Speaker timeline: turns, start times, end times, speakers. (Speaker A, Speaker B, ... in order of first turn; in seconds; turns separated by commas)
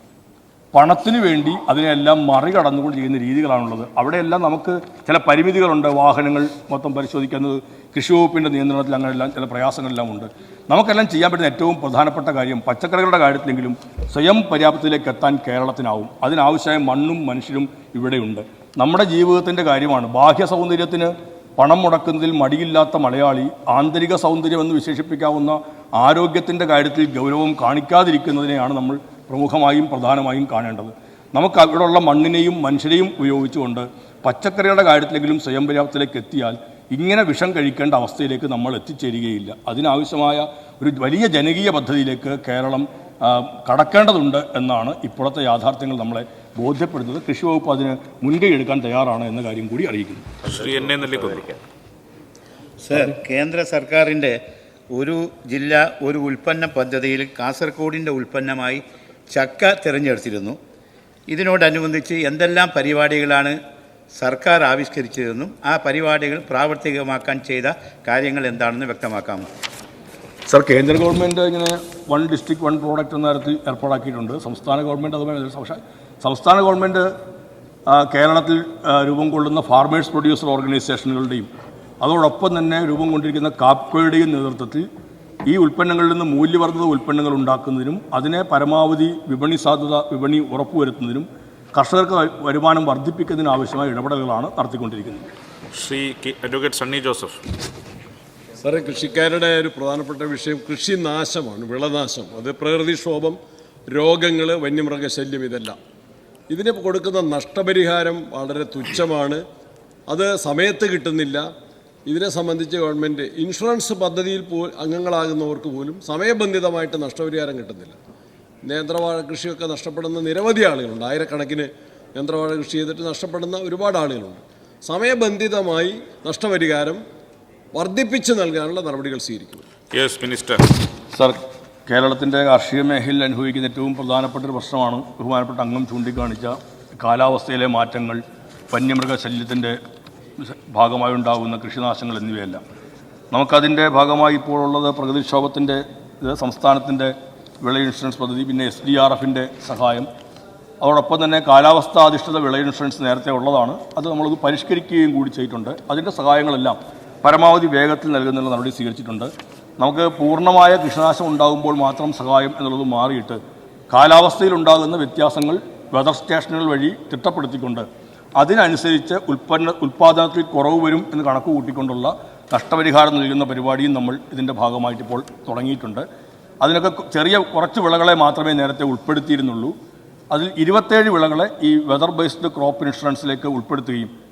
Speaker A: 0.7-50.3, Speaker B: 50.4-51.6, Speaker C: 52.8-54.4, Speaker C: 54.9-60.6, Speaker C: 61.3-63.6, Speaker C: 64.2-69.5, Speaker A: 70.5-77.1, Speaker A: 77.9-81.5, Speaker A: 82.0-84.9, Speaker A: 85.5-95.3, Speaker B: 95.7-97.4, Speaker D: 98.6-105.8, Speaker D: 106.5-109.4, Speaker D: 110.1-111.5, Speaker D: 112.1-118.0, Speaker D: 118.7-127.0, Speaker D: 127.7-129.7, Speaker B: 129.9-130.6, Speaker A: 131.1-139.8, Speaker A: 140.4-142.6, Speaker A: 143.3-150.1, Speaker A: 150.8-163.4, Speaker A: 163.9-176.1, Speaker A: 176.6-179.8, Speaker A: 180.3-184.1